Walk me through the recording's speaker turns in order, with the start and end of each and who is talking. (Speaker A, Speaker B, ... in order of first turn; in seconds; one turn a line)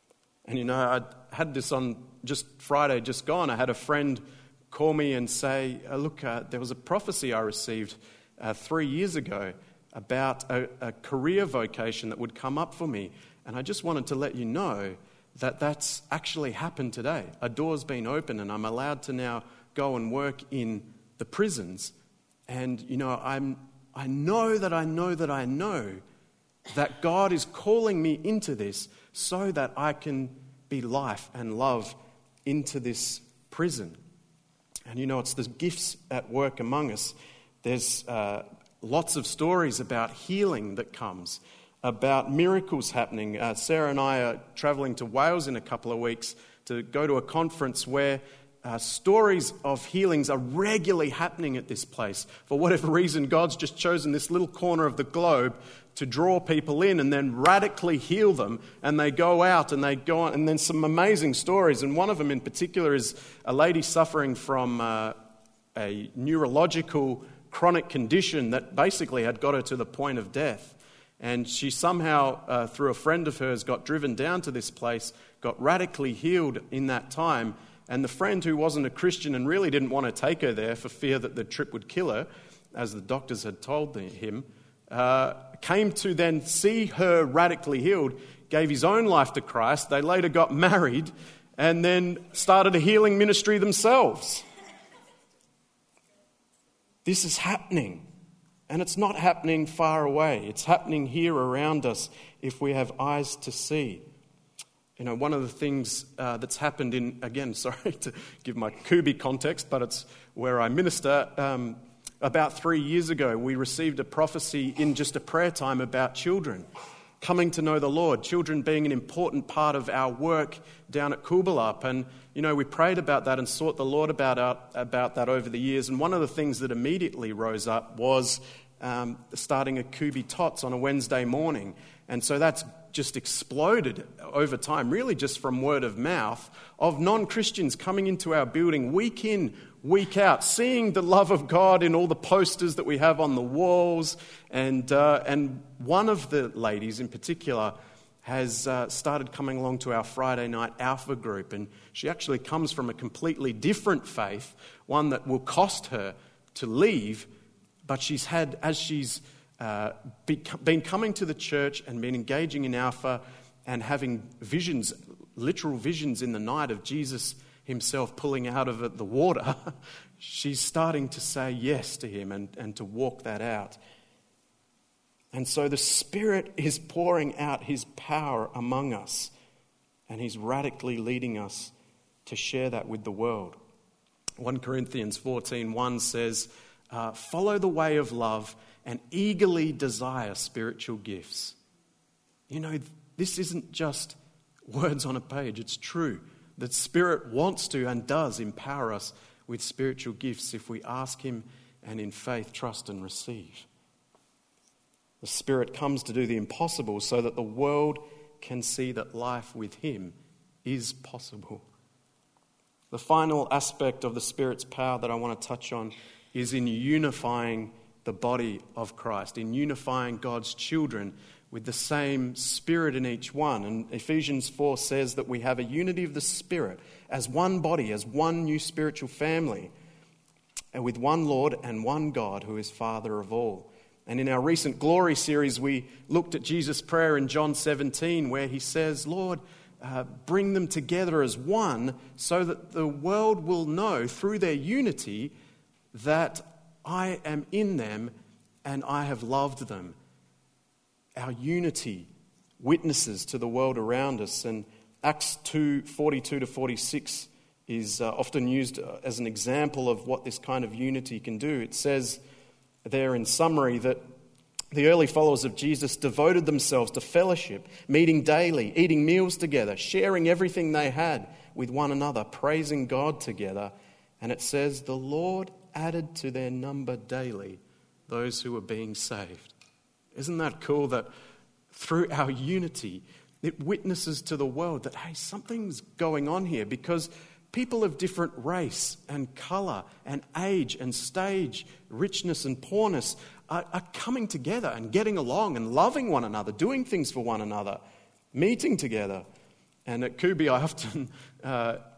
Speaker A: 0.5-21.9
Speaker A: 22.5-26.0
Speaker A: 26.7-34.0
Speaker A: 34.9-65.1
Speaker A: 65.7-94.4
Speaker A: 97.0-98.1
Speaker A: 98.7-104.0
Speaker A: 105.0-116.7
Speaker A: 117.2-157.3
Speaker A: 157.8-173.8
Speaker A: 175.3-179.3
Speaker A: 180.1-181.7
Speaker A: 182.2-183.6
Speaker A: 184.4-191.6
Speaker A: 192.5-203.7
Speaker A: 205.2-211.6
Speaker A: 212.9-229.7
Speaker A: 230.7-245.3
Speaker A: 245.9-248.1
Speaker A: 248.6-249.9
Speaker A: 251.2-262.2
Speaker A: 262.8-264.0
Speaker A: 264.7-279.5
Speaker A: 280.1-281.1
Speaker A: 281.7-297.8
Speaker A: 298.3-299.2
Speaker A: 299.9-301.8